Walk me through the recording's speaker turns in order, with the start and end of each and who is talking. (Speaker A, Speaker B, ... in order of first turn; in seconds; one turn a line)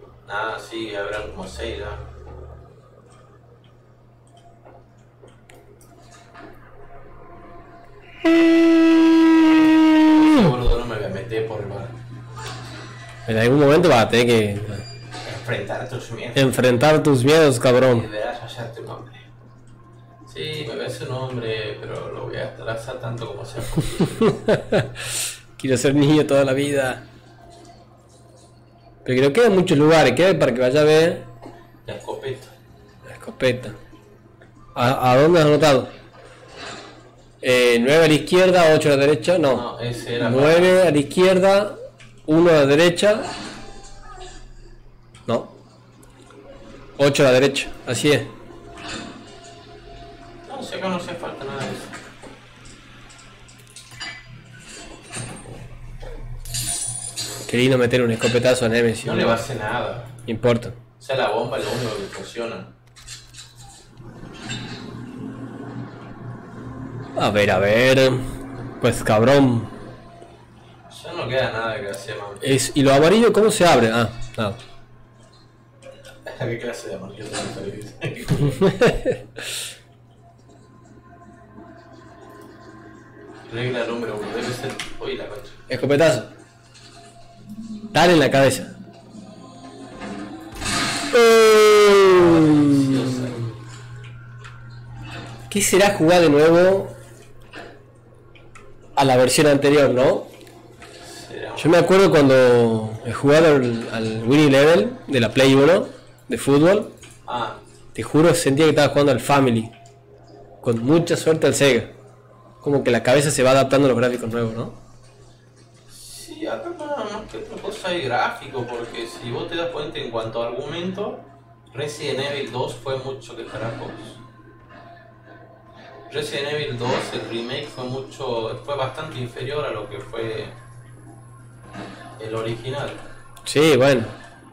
Speaker A: 0.2-2.0
Speaker B: 8.4-9.1
Speaker B: 10.0-10.5
Speaker A: 10.1-12.0
Speaker B: 13.3-14.8
Speaker A: 15.2-16.6
Speaker B: 16.4-18.1
Speaker A: 17.9-19.3
Speaker A: 20.3-24.4
Speaker B: 24.2-27.0
Speaker B: 29.1-31.3
Speaker A: 31.9-32.5
Speaker B: 33.1-33.8
Speaker B: 34.8-35.9
Speaker B: 37.4-39.6
Speaker A: 39.5-40.8
Speaker B: 40.2-43.3
Speaker B: 45.3-45.5
Speaker B: 47.0-48.3
Speaker A: 50.5-52.0
Speaker B: 57.5-59.4
Speaker A: 59.0-60.1
Speaker B: 60.3-60.8
Speaker A: 61.0-62.7
Speaker B: 67.2-68.3
Speaker B: 68.8-69.7
Speaker A: 70.9-72.6
Speaker B: 72.4-74.6
Speaker A: 76.2-78.7
Speaker B: 78.6-79.2
Speaker A: 83.5-85.6
Speaker B: 85.7-86.3
Speaker B: 87.9-88.7
Speaker B: 91.1-93.4
Speaker A: 92.0-93.5
Speaker B: 95.5-97.0
Speaker B: 99.0-100.3
Speaker A: 101.0-102.2
Speaker B: 101.6-106.9
Speaker A: 107.3-107.6
Speaker B: 107.9-109.7
Speaker B: 110.6-111.9
Speaker B: 112.6-114.8
Speaker A: 115.9-124.2
Speaker A: 126.1-130.6
Speaker A: 132.2-133.0
Speaker B: 133.5-134.2